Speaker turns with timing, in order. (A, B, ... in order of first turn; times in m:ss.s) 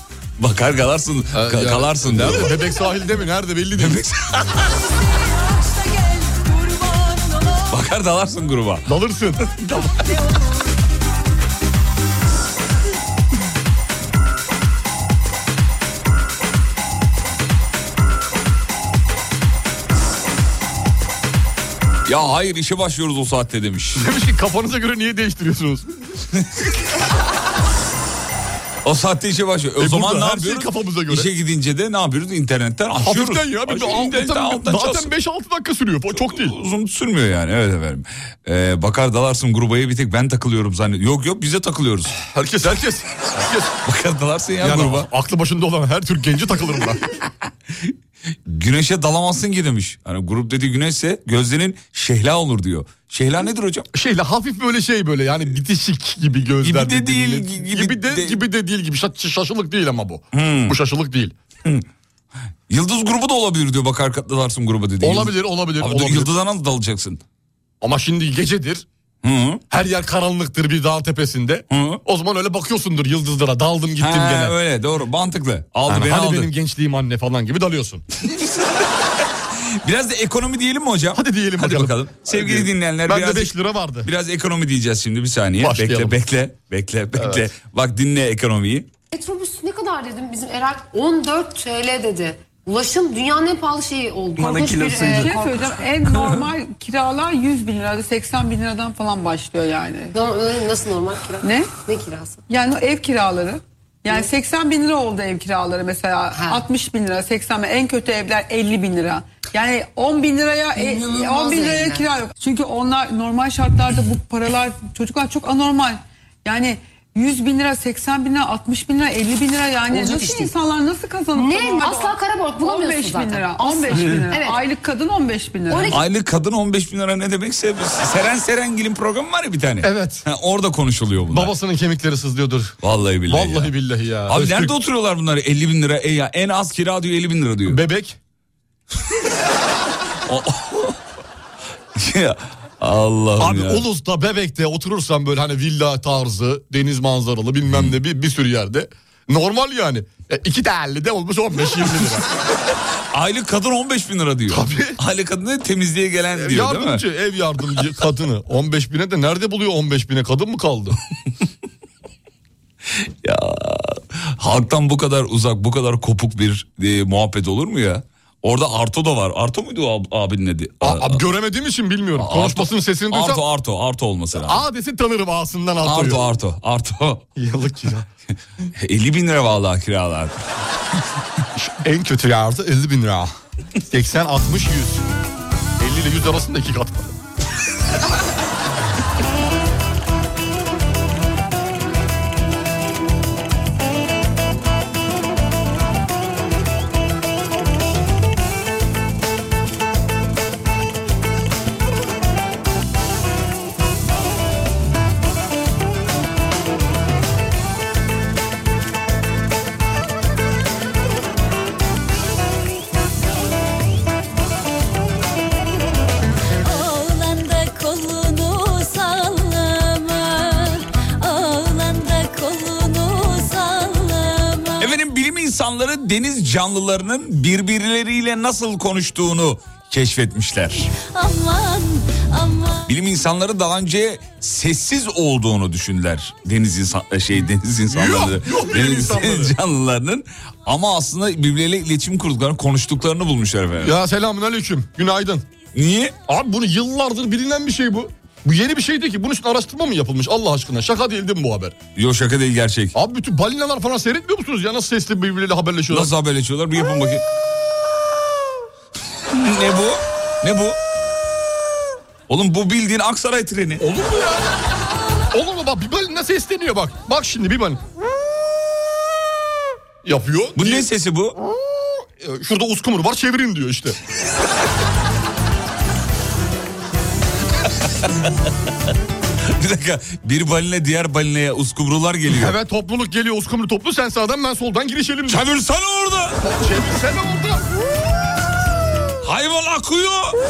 0:00.4-0:02.7 A
0:01.3-0:04.0 B
0:03.7-0:04.7 A
0:04.6-0:07.8 C
0:07.7-0:08.9 A
0:08.9-0:09.5 B
0:09.6-0:09.9 A
0:09.9-0:10.7 C
0:22.0-0:24.1 A
0:24.0-0:25.9 B
0:28.8-0:35.1 A
0:29.8-0:31.3 B
0:33.0-0:36.5 B
0:36.1-0:42.1 A
0:42.2-0:43.8 B
0:43.8-0:45.1 A
0:44.6-0:47.0 B
0:48.4-0:53.9 A
0:53.9-1:01.3 B
0:56.6-0:58.4 A
1:00.3-1:00.8 A
1:02.7-1:07.2 A
1:05.0-1:06.3 B
1:07.8-1:08.8 B
1:09.2-1:09.6 A
1:09.7-1:14.5 B
1:11.7-1:12.0 A
1:14.0-1:16.5 A
1:15.9-1:18.0 B
1:18.2-1:28.9 A
1:21.1-1:24.1 B
1:25.6-1:26.1 B
1:29.1-1:35.8 D
1:35.0-1:40.1 E
1:40.1-1:42.4 D
1:41.4-1:41.7 E
1:42.5-2:06.0 E
1:46.3-1:46.6 D
1:50.7-1:52.2 D
1:59.9-2:00.5 D
2:01.3-2:04.6 D
2:05.7-2:06.0 D
2:05.9-2:11.5 A
2:09.8-2:10.2 B
2:11.3-2:12.8 B
2:12.8-2:13.7 A
2:13.3-2:14.7 B
2:14.3-2:17.8 A
2:17.7-2:18.2 B
2:20.2-2:21.0 A
2:21.9-2:23.8 A
2:23.4-2:32.3 B
2:27.7-2:27.9 A
2:33.1-2:37.0 A
2:34.5-2:35.0 B
2:36.4-2:41.0 B
2:43.0-2:51.2 A
2:50.8-2:53.4 B
2:52.2-2:54.6 A
2:54.3-2:56.2 B
2:55.8-2:57.2 A
2:57.4-2:58.1 B
2:58.8-3:00.4 A
3:01.6-3:03.3 B
3:03.9-3:05.0 B
3:05.8-3:07.1 B
3:36.6-3:44.9 F
3:44.8-3:50.9 A
3:50.9-3:52.9 F
3:52.8-4:04.0 A
3:57.9-3:59.5 B
4:03.8-4:05.4 B
4:05.7-4:06.2 A
4:06.3-4:11.8 B
4:12.0-4:12.9 A
4:12.9-4:16.1 B
4:15.9-4:17.2 A
4:19.3-4:20.8 A
4:22.3-4:23.8 A
4:23.8-4:24.5 B
4:25.3-4:27.8 B
4:30.0-4:30.8 B
4:30.6-4:31.4 A
4:32.1-4:34.0 B
4:37.8-4:38.3 A
4:39.4-4:42.6 A
4:42.3-4:45.4 B
4:45.3-4:46.4 A
4:46.4-4:47.6 B
4:49.2-4:50.4 A